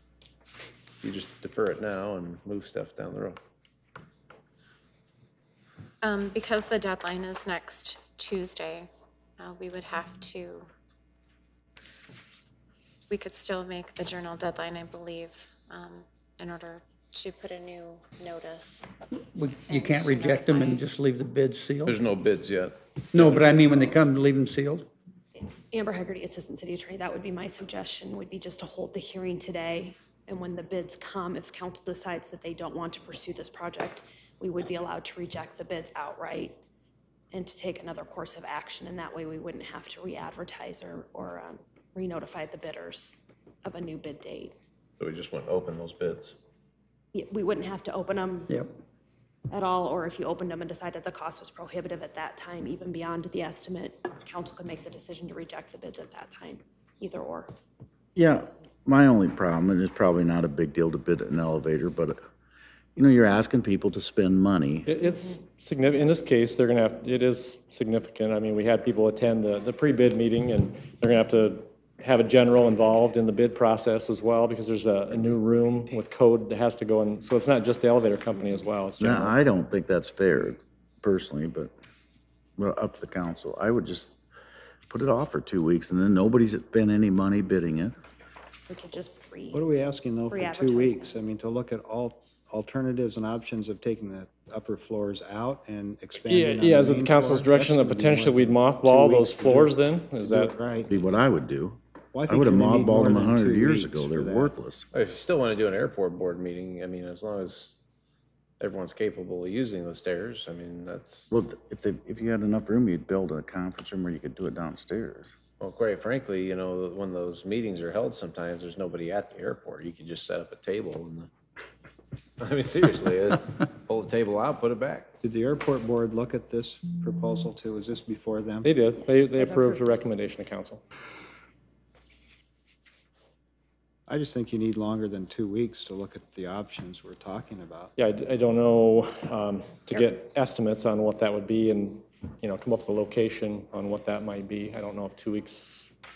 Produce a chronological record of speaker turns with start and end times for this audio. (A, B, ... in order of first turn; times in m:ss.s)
0:01.0-0:03.4 A
0:06.0-0:08.9 B
0:09.4-0:10.7 B
0:13.1-0:18.9 B
0:19.3-0:22.0 C
0:19.7-0:20.8 B
0:21.8-0:24.0 A
0:23.1-0:24.9 C
0:25.4-0:36.6 D
0:37.3-0:44.6 D
0:45.0-0:46.3 A
0:47.1-0:48.6 D
0:49.5-0:57.5 D
0:58.2-1:02.2 E
1:03.0-1:04.9 E
1:04.9-1:19.4 F
1:19.0-1:21.7 E
1:22.6-1:24.2 E
1:24.9-1:27.9 E
1:28.7-1:29.6 D
1:29.5-1:40.9 G
1:30.3-1:31.1 D
1:36.2-1:40.5 F
1:40.9-1:44.9 E
1:42.1-1:44.6 G
1:44.9-1:47.7 A
1:48.6-1:51.3 A
1:51.3-1:55.3 E
1:55.6-2:01.3 A
2:02.4-2:05.1 A
2:05.2-2:08.7 G
2:08.6-2:10.8 F
2:09.0-2:10.1 D
2:14.1-2:17.9 G
2:18.0-2:25.9 F